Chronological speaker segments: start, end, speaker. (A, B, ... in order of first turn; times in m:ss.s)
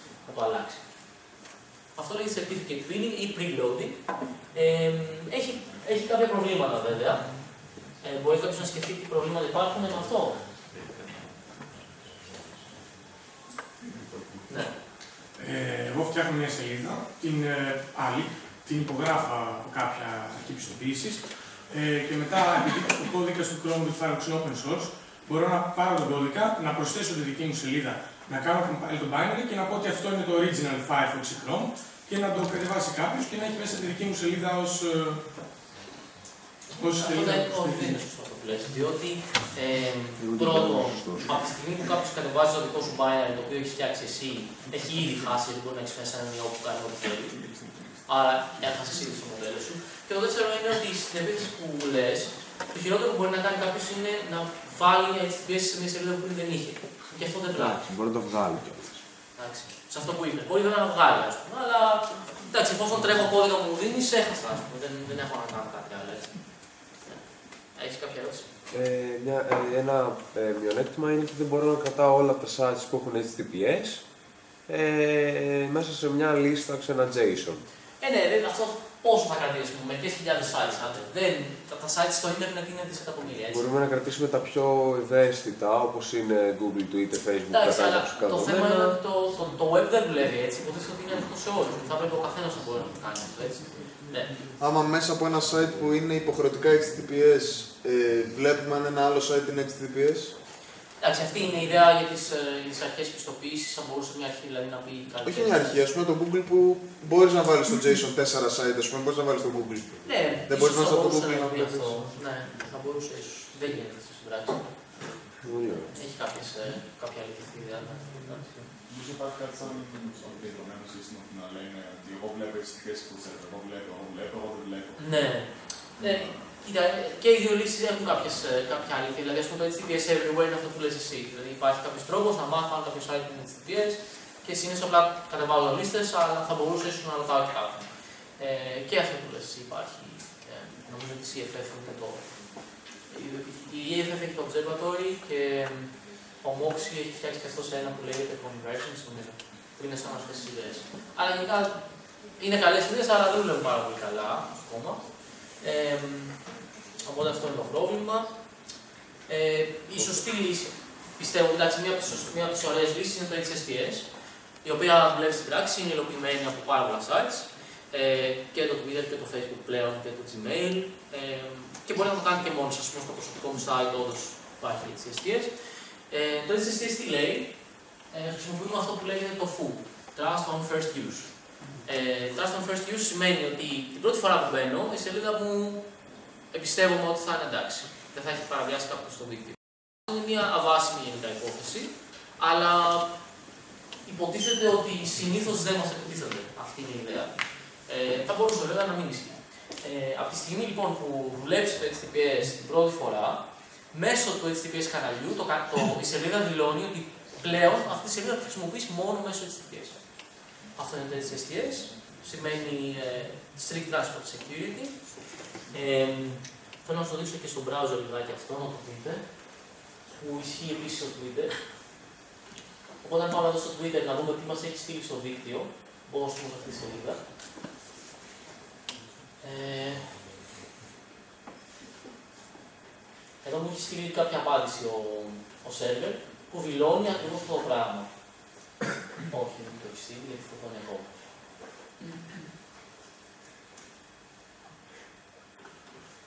0:00.2-0:00.8 A
0:02.0-0:04.0 A
0:04.5-0:07.3 A
0:08.0-0:10.4 A
0:15.4-0:35.2 B
0:36.7-0:38.0 B
0:36.9-0:47.4 A
0:40.2-0:41.3 C
0:48.0-0:57.8 A
0:57.6-0:59.0 C
0:59.4-1:06.5 A
1:07.0-1:08.5 A
1:08.7-1:14.0 C
1:14.7-1:17.6 C
1:18.0-1:23.7 A
1:23.5-1:29.0 C
1:27.5-1:34.3 A
1:34.6-1:40.3 D
1:41.0-1:45.8 A
1:45.2-1:52.0 D
1:50.0-1:54.7 A
1:55.4-1:55.9 C
1:55.9-1:58.5 A
1:58.8-2:05.3 E
2:05.0-2:22.3 A
2:23.1-2:31.8 A
2:32.4-2:35.0 A
2:35.6-2:36.4 A
2:37.0-2:38.3 A
2:39.3-2:44.1 A
2:44.6-2:55.5 A
2:56.1-2:57.5 A
2:58.1-3:01.3 A
3:01.8-3:05.8 A
3:06.5-3:13.1 A
3:14.0-3:17.3 A
3:17.9-3:23.4 A
3:23.9-3:30.0 A
3:30.8-3:35.0 A
3:35.7-3:39.2 A
3:40.1-3:41.5 A
3:43.0-3:47.2 A
3:49.4-3:50.1 A
3:53.4-3:58.1 A
3:59.3-4:01.1 A